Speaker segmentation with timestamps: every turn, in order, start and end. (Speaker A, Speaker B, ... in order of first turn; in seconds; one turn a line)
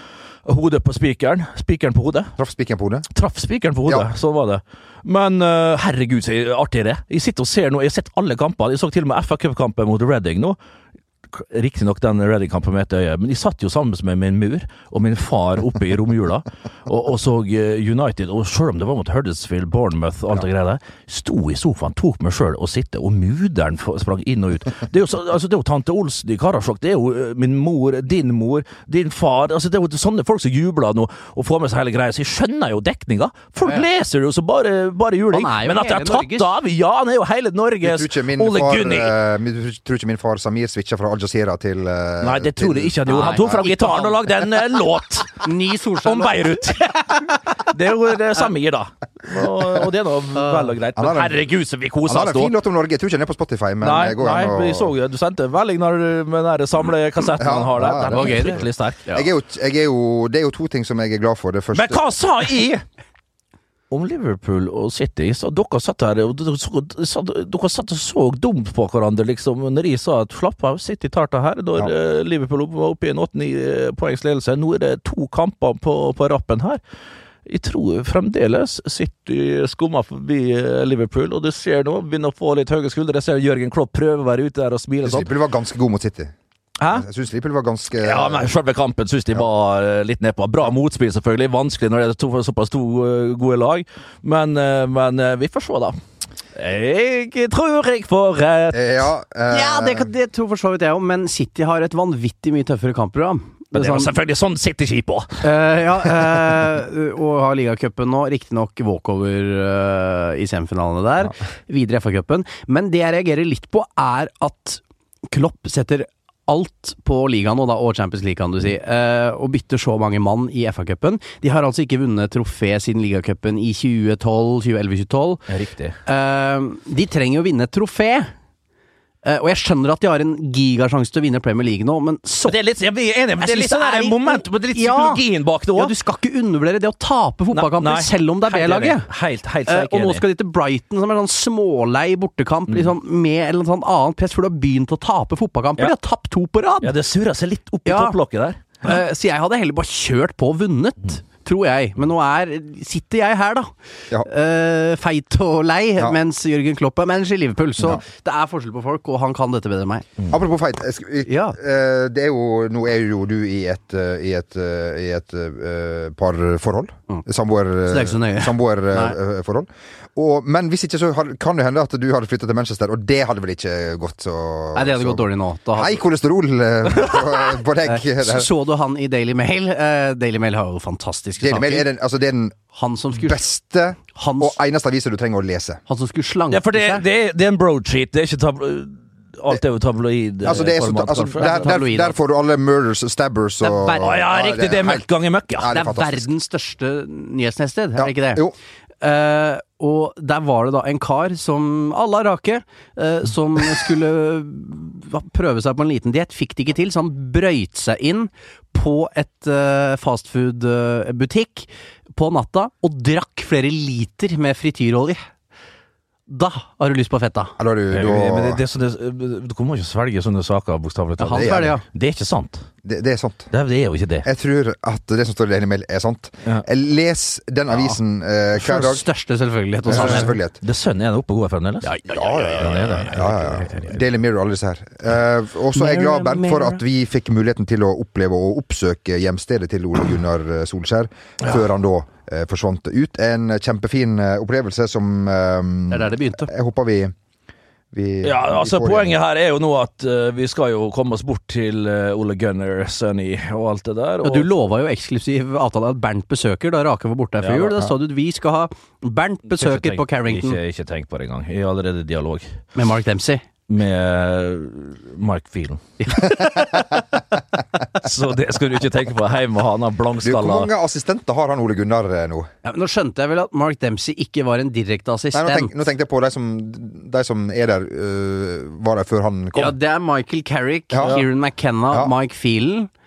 Speaker A: 0.5-2.3
Speaker B: 2.4-3.1
Speaker A: 3.1-10.6
Speaker A: 11.3-39.1
Speaker C: 35.3-36.5
Speaker B: 37.8-43.6
Speaker A: 42.2-45.4
Speaker C: 43.1-44.2
Speaker C: 45.4-46.4
Speaker A: 46.0-52.5
Speaker C: 50.4-50.7
Speaker B: 51.0-51.4
Speaker B: 52.1-54.9
Speaker A: 53.8-59.0
Speaker B: 57.4-62.0
Speaker C: 58.1-59.3
Speaker A: 61.7-62.8
Speaker A: 63.9-76.8
Speaker A: 77.5-85.3
Speaker B: 85.0-86.3
Speaker A: 86.8-87.0
Speaker B: 86.9-88.5
Speaker A: 88.0-96.0
Speaker A: 96.6-99.0
Speaker B: 98.7-100.1
Speaker C: 99.5-104.1
Speaker A: 103.7-105.4
Speaker C: 105.4-125.4
Speaker A: 125.5-126.0
Speaker C: 126.1-128.3
Speaker C: 129.2-132.6
Speaker A: 132.5-135.9
Speaker C: 133.4-135.2
Speaker C: 135.8-139.1
Speaker A: 137.5-140.2
Speaker C: 139.7-146.9
Speaker A: 146.8-149.0
Speaker C: 147.9-148.2
Speaker C: 148.8-160.1
Speaker B: 160.3-178.5
Speaker C: 161.3-161.6
Speaker C: 167.9-169.2
Speaker C: 174.8-176.0
Speaker C: 177.8-181.9
Speaker B: 181.4-182.6
Speaker C: 182.7-183.4
Speaker B: 183.1-185.8
Speaker C: 184.2-184.6
Speaker C: 185.9-187.0
Speaker A: 186.5-191.7
Speaker B: 190.4-195.1
Speaker C: 190.5-192.2
Speaker C: 193.6-194.1
Speaker A: 194.0-195.8
Speaker B: 195.6-196.3
Speaker C: 195.7-198.4
Speaker B: 198.0-198.6
Speaker C: 199.0-215.2
Speaker C: 216.3-217.6
Speaker B: 217.6-218.6
Speaker A: 217.9-222.7
Speaker C: 221.2-221.8
Speaker B: 221.3-221.8
Speaker B: 222.8-223.5
Speaker A: 223.5-224.3
Speaker B: 224.2-229.0
Speaker C: 227.7-228.0
Speaker C: 228.6-230.4
Speaker B: 229.9-230.6
Speaker A: 229.9-231.9
Speaker C: 231.8-233.3
Speaker B: 232.1-247.1
Speaker A: 232.6-234.0
Speaker C: 235.8-236.8
Speaker C: 245.9-246.5
Speaker B: 247.9-249.1
Speaker A: 248.2-254.5
Speaker C: 254.2-260.6
Speaker A: 257.4-257.9
Speaker A: 259.5-262.5
Speaker C: 262.8-263.4
Speaker A: 263.7-267.0
Speaker C: 266.0-266.5
Speaker A: 268.0-270.7
Speaker B: 270.2-272.5
Speaker C: 272.6-275.7
Speaker B: 275.3-279.8
Speaker C: 279.5-282.9
Speaker B: 280.9-281.2